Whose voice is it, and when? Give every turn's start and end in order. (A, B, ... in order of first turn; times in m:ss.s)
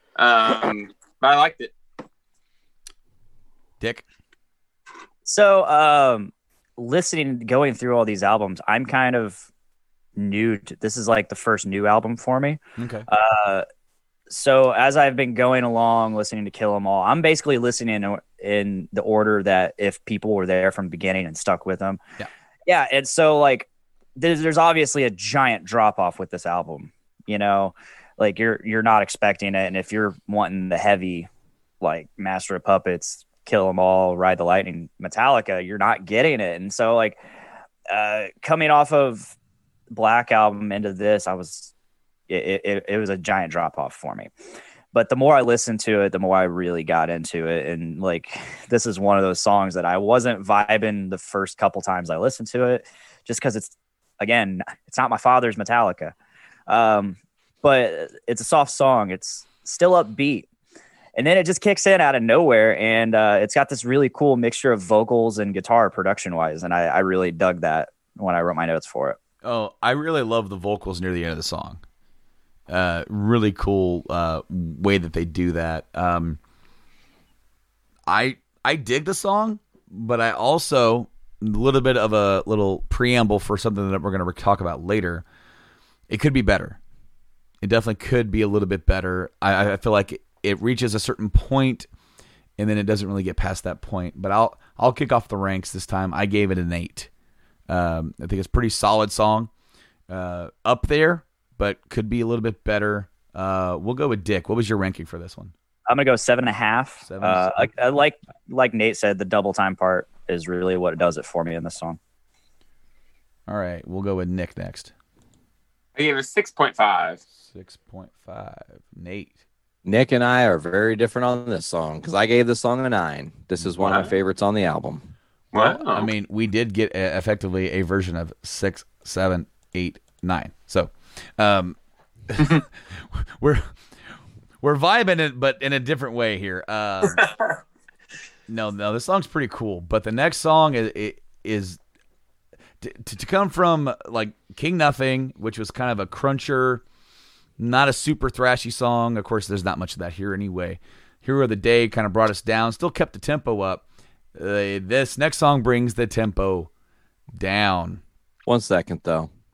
0:00.2-0:01.7 A
0:05.3-0:09.5 B
0:10.2-0:13.7 B
0:12.8-0:13.0 C
0:14.3-0:22.0 B
0:22.7-0:31.3 B
0:31.8-0:37.2 B
0:37.9-0:39.4 B
0:39.9-0:41.7 B
0:42.3-0:44.3 B
0:44.9-0:56.1 B
0:56.7-1:00.5 B
1:01.2-1:09.2 B
1:09.4-1:11.8 C
1:12.7-1:16.4 C
1:18.1-1:25.2 C
1:26.1-1:26.8 C
1:27.6-1:31.9 C
1:32.6-1:37.1 C
1:37.7-1:39.5 C
1:40.1-1:45.5 C
1:45.9-1:52.0 B
1:47.0-1:47.7 C
1:53.5-1:54.9 C
1:56.0-1:57.2 A
1:57.5-1:59.4 C
1:59.8-2:05.1 D
2:03.8-2:04.1 A
2:05.5-2:06.1 A
2:05.5-2:11.8 C
2:12.3-2:13.7 C
2:14.6-2:17.3 C
2:17.2-2:17.5 A
2:18.5-2:21.8 C
2:22.8-2:26.8 C
2:27.6-2:36.7 C
2:37.3-2:38.0 C
2:38.5-2:39.3 D